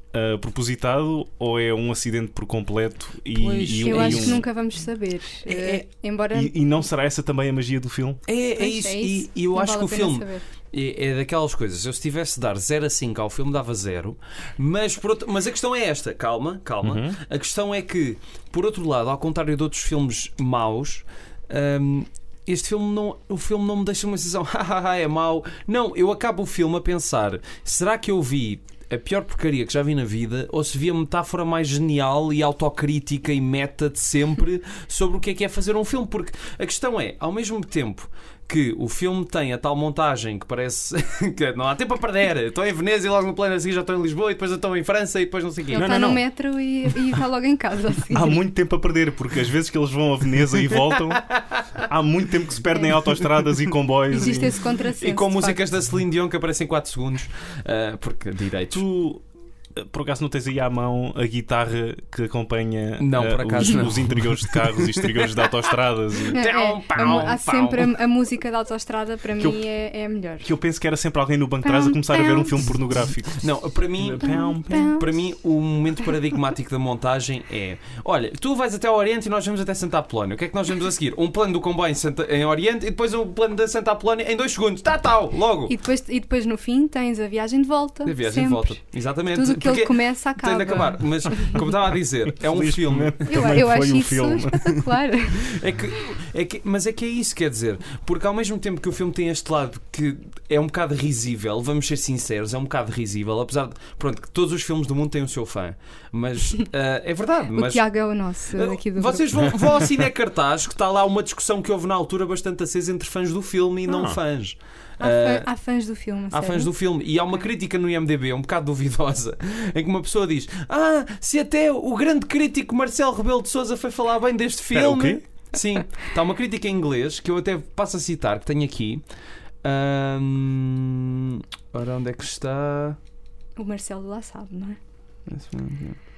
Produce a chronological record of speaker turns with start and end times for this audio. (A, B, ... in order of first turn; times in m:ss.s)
0:00.1-0:04.4 A
0:03.4-0:04.5 B
0:03.8-0:06.6 C
0:05.5-0:05.8 B
0:06.3-0:08.2 A
0:08.3-0:45.9 B
0:08.6-0:10.4 C
0:16.8-0:17.2 A
0:45.7-0:48.4 C
0:45.7-0:46.2 A
0:48.1-0:54.6 A
0:51.3-0:51.6 B
0:54.1-0:55.6 C
0:55.0-0:58.8 B
0:58.7-0:59.2 A
0:59.8-1:06.4 A
1:03.0-1:05.5 B
1:06.3-1:07.9 B
1:06.3-1:10.5 C
1:10.4-1:15.0 A
1:11.6-1:12.7 C
1:13.4-1:25.8 B
1:14.2-1:15.1 C
1:25.7-1:31.6 C
1:28.0-1:33.4 B
1:32.3-1:34.9 A
1:33.3-1:35.5 C
1:35.4-1:47.8 B
1:47.5-1:49.6 C
1:48.5-1:55.5 B
1:53.9-1:54.2 A
1:55.0-1:56.7 C
1:56.3-2:09.0 B
2:04.7-2:05.2 A
2:09.6-2:13.0 B
2:13.6-2:14.8 C
2:15.3-2:16.0 B